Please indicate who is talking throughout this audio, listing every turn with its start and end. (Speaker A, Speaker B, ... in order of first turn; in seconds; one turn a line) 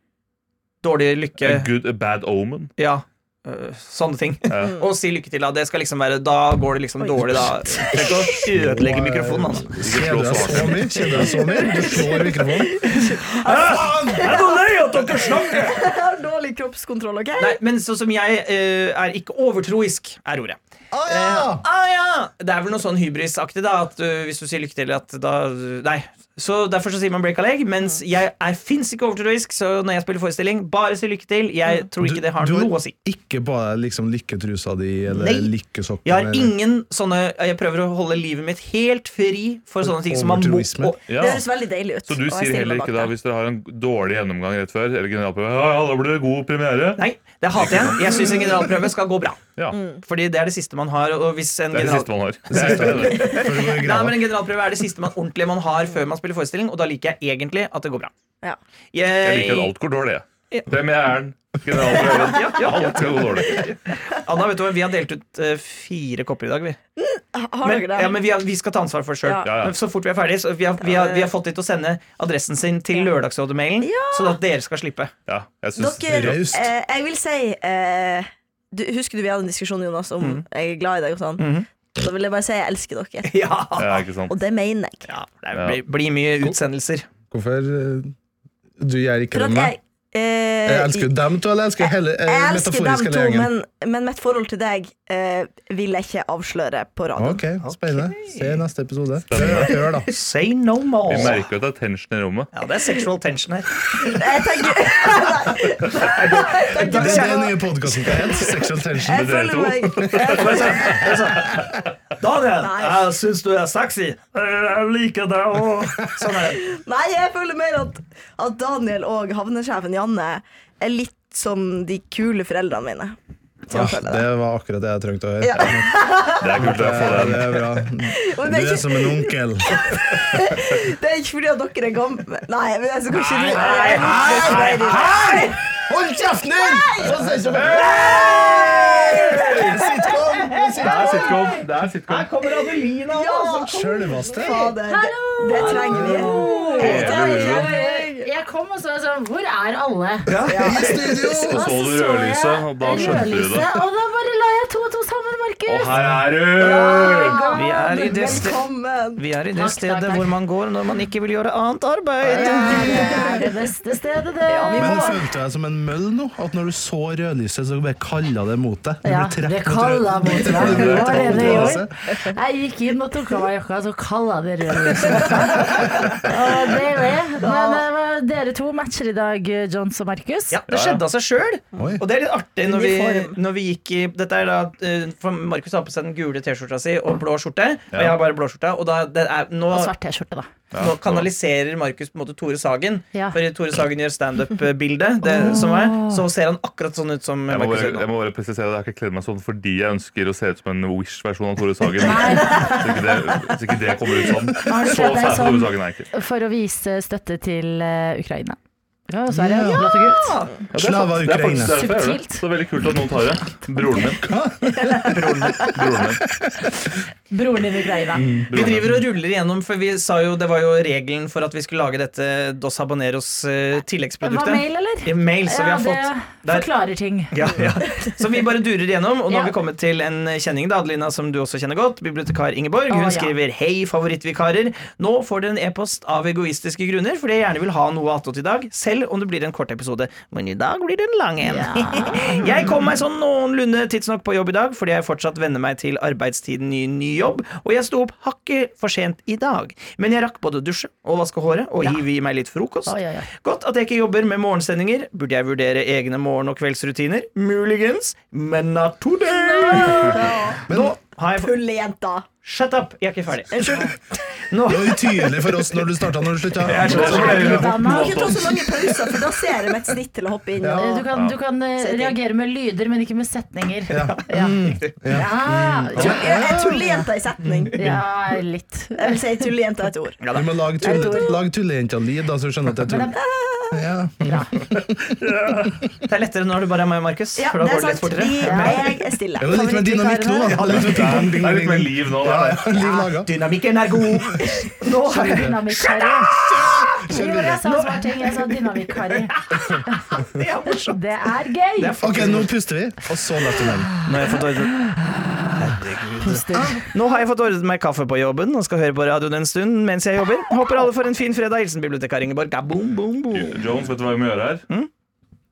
Speaker A: 0.8-1.7
Speaker B: 1.4-2.7
Speaker A: 2.8-9.7
Speaker B: 4.5-4.8
Speaker C: 4.6-4.9
Speaker C: 7.0-8.4
Speaker D: 8.3-14.6
Speaker B: 9.8-11.3
Speaker C: 11.1-17.6
Speaker A: 13.2-15.8
Speaker A: 17.4-32.9
Speaker D: 20.9-21.6
Speaker D: 32.0-36.5
Speaker A: 35.1-35.5
Speaker A: 36.0-41.4
Speaker D: 39.8-41.0
Speaker B: 41.1-41.5
Speaker C: 41.2-43.1
Speaker B: 42.1-47.0
Speaker A: 47.0-49.4
Speaker B: 47.6-48.0
Speaker C: 49.7-50.0
Speaker A: 50.0-58.1
Speaker B: 51.7-53.4
Speaker D: 52.5-54.3
Speaker A: 58.9-59.7
Speaker B: 59.2-63.6
Speaker A: 61.9-66.8
Speaker C: 67.0-68.2
Speaker A: 67.6-75.1
Speaker C: 69.2-69.5
Speaker B: 69.4-69.8
Speaker C: 70.8-71.3
Speaker C: 73.8-74.4
Speaker B: 75.3-76.4
Speaker C: 75.8-83.5
Speaker D: 76.1-76.7
Speaker A: 81.4-81.7
Speaker A: 83.2-84.0
Speaker B: 83.8-84.4
Speaker C: 84.3-85.1
Speaker A: 85.1-87.1
Speaker B: 85.5-85.8
Speaker D: 87.3-88.1
Speaker D: 88.8-89.8
Speaker C: 89.3-91.1
Speaker D: 90.7-93.5
Speaker C: 91.8-97.4
Speaker D: 97.2-100.1
Speaker A: 97.6-98.6
Speaker B: 99.3-99.8
Speaker A: 100.1-101.4
Speaker B: 101.1-102.5
Speaker A: 102.5-104.2
Speaker C: 104.0-108.5
Speaker A: 105.9-107.5
Speaker D: 106.8-109.3
Speaker C: 109.0-111.1
Speaker B: 109.1-111.6
Speaker A: 110.3-111.6
Speaker A: 112.2-116.6
Speaker C: 112.6-113.1
Speaker C: 116.6-123.2
Speaker C: 123.7-124.2
Speaker D: 123.7-126.0
Speaker C: 125.4-127.1
Speaker B: 126.4-127.6
Speaker D: 126.6-129.8
Speaker C: 128.2-135.6
Speaker A: 133.4-135.5
Speaker D: 133.8-135.1
Speaker D: 135.8-138.2
Speaker C: 136.6-140.1
Speaker A: 137.5-141.4
Speaker D: 139.6-141.4
Speaker B: 140.8-142.3
Speaker C: 140.9-141.4
Speaker A: 142.1-144.6
Speaker C: 143.1-148.3
Speaker D: 143.6-144.8
Speaker E: 144.9-150.3
Speaker A: 145.5-147.2
Speaker D: 145.9-146.4
Speaker B: 146.8-147.7
Speaker A: 150.3-151.1
Speaker C: 150.5-151.4
Speaker D: 150.5-151.7
Speaker B: 151.5-153.7
Speaker E: 151.5-155.9
Speaker D: 152.9-153.2
Speaker B: 155.7-157.4
Speaker D: 155.9-156.3
Speaker C: 156.6-159.2
Speaker E: 156.7-158.4
Speaker A: 157.5-158.6
Speaker A: 159.2-162.9
Speaker E: 159.5-160.3
Speaker C: 162.3-163.6
Speaker D: 162.4-163.3
Speaker E: 162.4-165.2
Speaker C: 164.5-165.2
Speaker D: 164.8-171.9
Speaker E: 169.0-180.6
Speaker B: 170.5-171.7
Speaker C: 170.8-172.3
Speaker C: 175.0-175.9
Speaker C: 177.4-177.8
Speaker A: 180.5-189.9
Speaker B: 180.7-181.0
Speaker D: 181.8-182.0
Speaker C: 182.7-183.4
Speaker B: 187.9-188.2
Speaker E: 189.7-190.5
Speaker B: 190.7-191.3
Speaker A: 190.8-198.1
Speaker E: 193.1-193.4
Speaker E: 195.3-196.2
Speaker B: 197.5-206.1
Speaker E: 202.0-203.1
Speaker E: 204.6-208.6
Speaker E: 209.1-210.4
Speaker D: 209.3-209.9
Speaker A: 209.8-210.6
Speaker D: 210.7-211.8
Speaker B: 210.7-214.2
Speaker E: 211.7-212.4
Speaker D: 214.2-215.4
Speaker A: 215.1-215.6
Speaker B: 215.6-216.2
Speaker E: 217.3-218.3
Speaker D: 218.2-218.5
Speaker B: 218.5-219.0
Speaker A: 218.5-226.7
Speaker E: 224.2-227.4
Speaker A: 227.3-261.5
Speaker E: 229.3-229.5
Speaker E: 232.9-233.3
Speaker E: 241.4-242.7
Speaker E: 252.9-253.3
Speaker E: 259.5-260.1
Speaker C: 259.6-260.6
Speaker D: 260.7-261.0
Speaker C: 261.4-262.3
Speaker A: 262.4-263.6
Speaker C: 263.5-264.0
Speaker A: 264.5-265.1
Speaker D: 264.6-267.7
Speaker A: 266.6-267.6
Speaker B: 266.6-268.8
Speaker C: 266.9-271.0
Speaker E: 267.0-268.3
Speaker D: 270.6-271.1
Speaker E: 270.7-277.1
Speaker B: 271.1-271.4
Speaker C: 271.8-272.2
Speaker D: 273.9-276.8
Speaker A: 274.0-275.0
Speaker C: 275.9-277.8
Speaker A: 277.4-277.9
Speaker E: 277.8-279.2
Speaker C: 279.0-280.2
Speaker A: 280.2-280.5
Speaker D: 280.3-283.1
Speaker E: 280.8-281.4
Speaker C: 280.8-281.4
Speaker E: 282.8-283.1
Speaker C: 283.1-283.8
Speaker D: 283.7-285.7
Speaker E: 284.2-284.5
Speaker A: 286.1-288.9
Speaker C: 287.4-289.9
Speaker E: 288.4-288.9
Speaker D: 289.4-293.3
Speaker E: 289.5-290.8
Speaker A: 290.5-291.1
Speaker B: 290.8-292.6
Speaker A: 292.8-301.0
Speaker D: 294.1-294.4
Speaker E: 295.1-296.3
Speaker D: 295.1-295.6
Speaker D: 296.4-297.6
Speaker E: 297.1-299.4
Speaker E: 299.9-300.1
Speaker E: 300.8-302.4
Speaker A: 301.8-302.5
Speaker D: 302.0-303.9
Speaker E: 303.6-305.2
Speaker A: 304.0-304.8
Speaker A: 305.6-313.6
Speaker E: 306.2-306.9
Speaker D: 306.5-306.8
Speaker B: 313.3-314.6